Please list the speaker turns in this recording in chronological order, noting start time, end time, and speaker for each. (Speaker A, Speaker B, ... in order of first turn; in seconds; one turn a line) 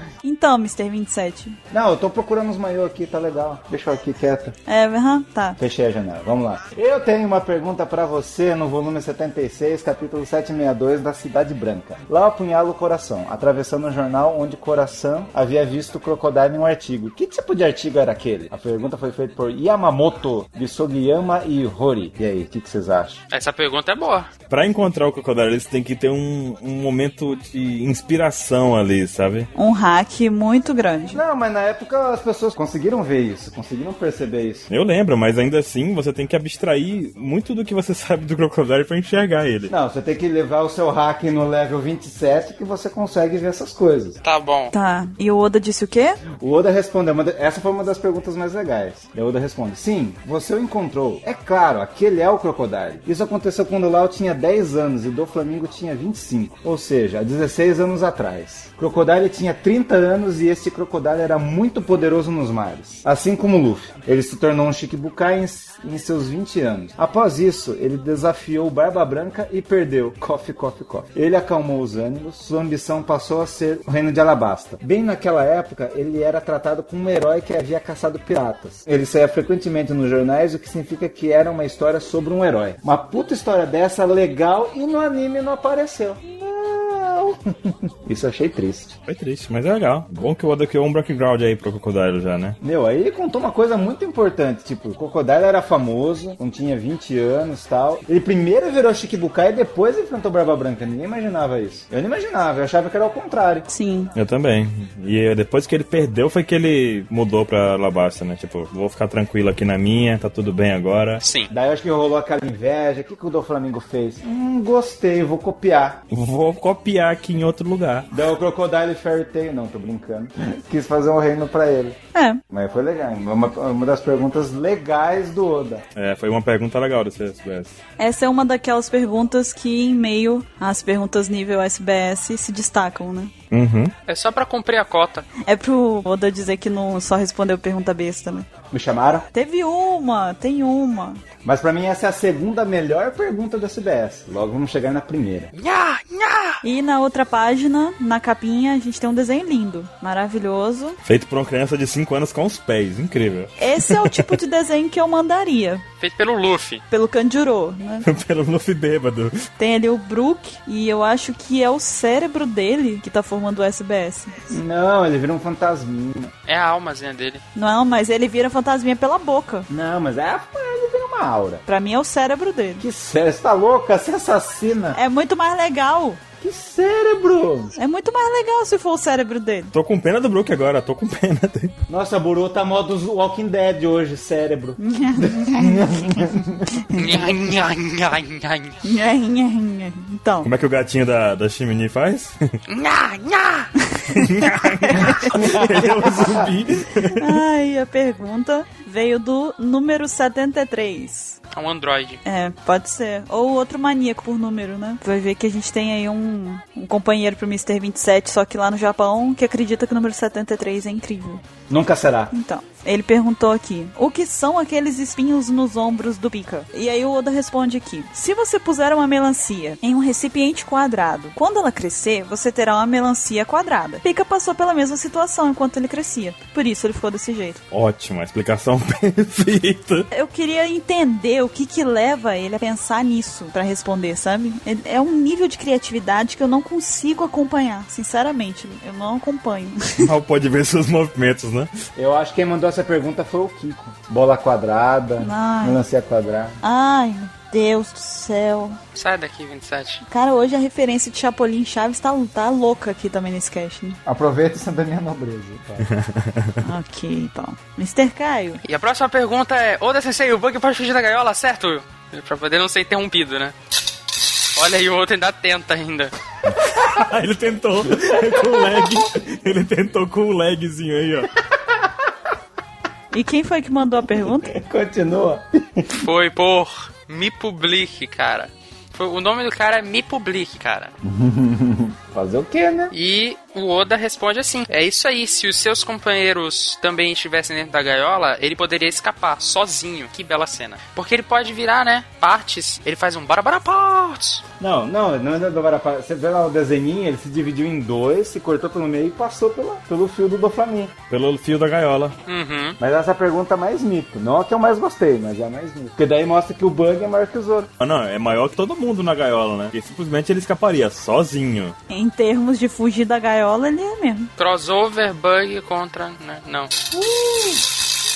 Speaker A: 0.2-1.6
Speaker B: 1.7-4.6
Speaker A: 4.7-5.6
Speaker B: 5.6-23.2
Speaker C: 23.3-24.3
Speaker D: 24.5-29.5
Speaker A: 29.6-31.2
Speaker B: 31.1-34.7
Speaker D: 34.7-39.7
Speaker B: 39.7-44.2
Speaker C: 44.2-44.7
Speaker A: 44.7-46.2
Speaker B: 46.3-89.0
Speaker D: 89.1-92.6
Speaker B: 92.6-103.7
Speaker A: 103.7-104.1
Speaker D: 104.2-111.2
Speaker C: 111.2-111.5
Speaker B: 111.5-116.0
Speaker D: 116.1-118.1
Speaker B: 118.1-122.0
Speaker A: 122.1-122.4
Speaker B: 122.5-125.8
Speaker D: 126.0-127.8
Speaker A: 128.0-133.3
Speaker D: 133.5-133.9
Speaker C: 134.1-135.3
Speaker A: 135.4-138.5
Speaker B: 138.7-139.3
Speaker A: 139.3-141.2
Speaker B: 141.4-145.5
Speaker C: 145.6-146.6
Speaker A: 146.6-151.0
Speaker D: 151.1-154.3
Speaker A: 153.6-155.8
Speaker C: 156.0-156.8
Speaker A: 156.9-158.1
Speaker D: 158.0-159.5
Speaker A: 159.6-164.4
Speaker B: 164.5-166.3
Speaker C: 166.5-167.4
Speaker A: 167.6-169.7
Speaker B: 169.7-171.6
Speaker A: 171.7-172.8
Speaker B: 172.8-175.0
Speaker A: 174.9-176.2
Speaker B: 176.4-177.8
Speaker A: 177.8-179.7
Speaker D: 179.7-181.8
Speaker B: 181.9-186.7
Speaker A: 184.8-185.9
Speaker A: 186.9-187.2
Speaker C: 186.9-188.8
Speaker A: 188.8-190.5
Speaker D: 190.4-192.4
Speaker C: 192.7-193.7
Speaker D: 194.1-197.4
Speaker A: 194.9-195.3
Speaker B: 195.3-196.5
Speaker A: 197.2-201.4
Speaker C: 201.5-202.2
Speaker A: 202.2-211.4
Speaker B: 211.7-212.3
Speaker A: 212.3-227.6
Speaker D: 227.7-230.1
Speaker A: 230.1-240.1
Speaker D: 240.0-241.7
Speaker B: 242.0-246.6
Speaker A: 245.2-245.8
Speaker A: 246.6-248.8
Speaker C: 248.9-250.0
Speaker A: 250.1-254.0
Speaker B: 254.1-255.9
Speaker D: 255.9-256.6
Speaker A: 256.6-258.6
Speaker C: 258.6-263.6
Speaker C: 264.6-266.1
Speaker D: 266.6-271.3
Speaker B: 268.0-268.8
Speaker A: 273.1-274.5
Speaker B: 274.4-276.0
Speaker C: 275.9-280.9
Speaker B: 281.0-282.9
Speaker C: 282.9-294.4
Speaker B: 294.6-300.9
Speaker D: 301.1-302.2
Speaker C: 302.3-302.8
Speaker B: 302.8-307.7
Speaker D: 307.8-311.8
Speaker A: 311.9-314.3
Speaker C: 314.4-316.7
Speaker B: 316.9-317.6